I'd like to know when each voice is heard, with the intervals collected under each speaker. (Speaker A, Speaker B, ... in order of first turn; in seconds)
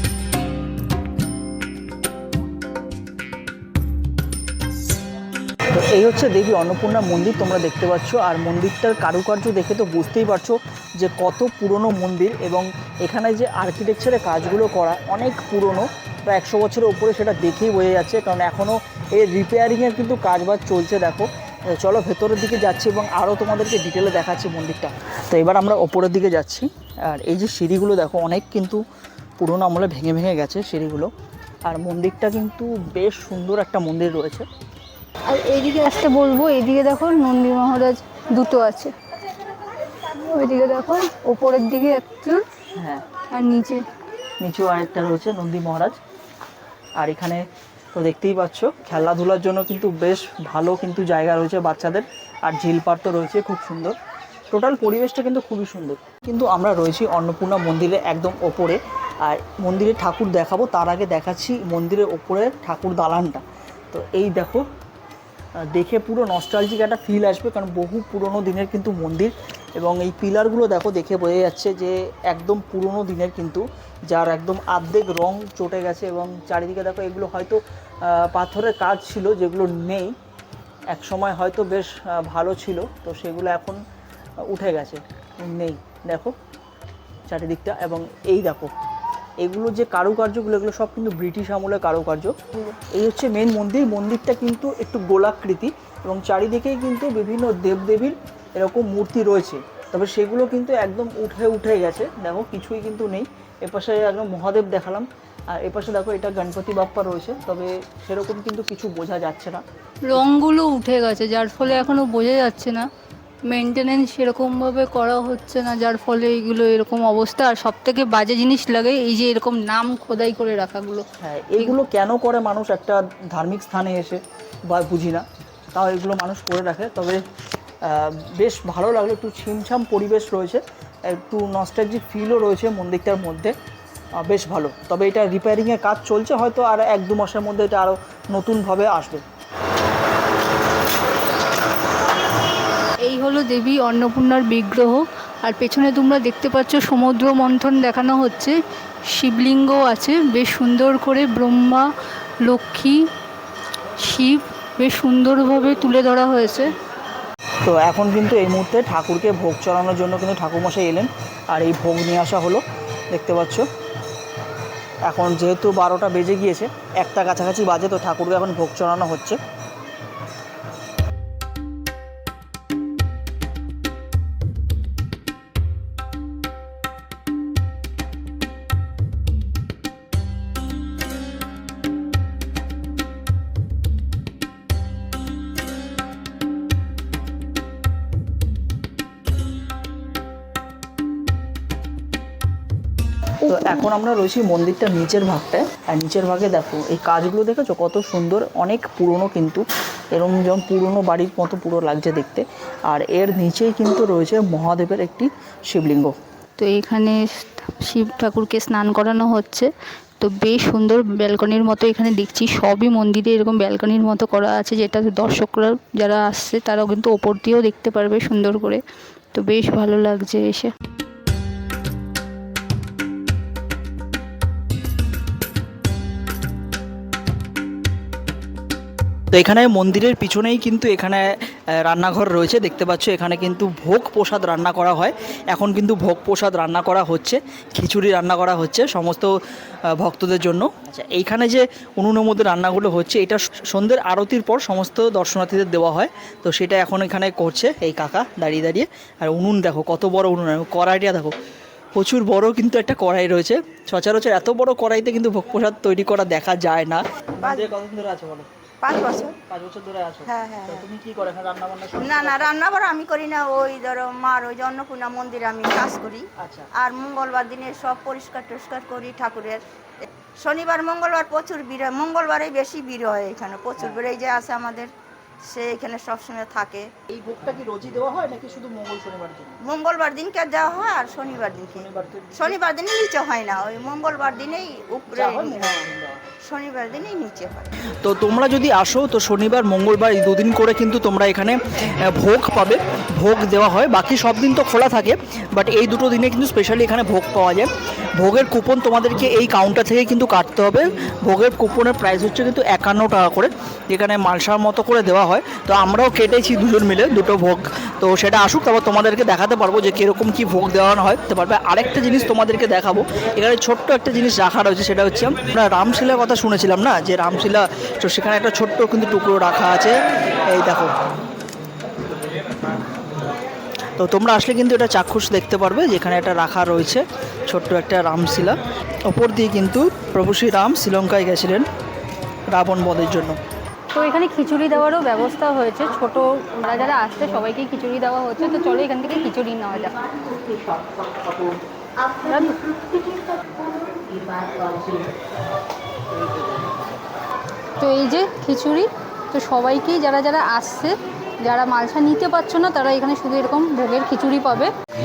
Speaker A: 5.7-21.3, 21.8-28.8, 29.4-31.1, 31.6-34.4, 42.8-43.0, 44.4-46.0, 47.0-53.9, 54.5-64.6, 65.7-77.6, 78.1-80.1, 80.9-83.8, 84.5-86.3, 87.3-88.7, 89.4-92.3, 92.9-109.6, 121.2-127.2, 127.8-133.5, 134.2-139.2, 157.6-163.7, 165.1-169.4, 193.5-206.1, 229.3-231.3, 231.8-239.3, 240.0-251.3, 251.9-258.4, 259.4-262.5, 266.4-266.7, 277.1-279.5, 281.7-282.6, 285.1-286.2, 288.0-291.6, 292.1-320.0, 320.5-320.9, 324.0-328.6, 329.1-331.6, 332.5-333.4
Speaker B: 35.3-38.9, 40.1-42.4, 43.3-43.8, 110.1-112.8, 113.5-121.0, 143.1-148.5, 149.2-151.8, 152.5-153.0, 154.1-156.7, 206.6-207.2, 207.8-209.7, 210.2-218.8, 219.3-220.7, 333.9-340.1, 342.1-342.6, 347.8-354.7
Speaker C: 257.4-257.8, 258.8-259.4, 260.2-260.9, 261.9-274.9, 275.4-276.9, 279.6-287.7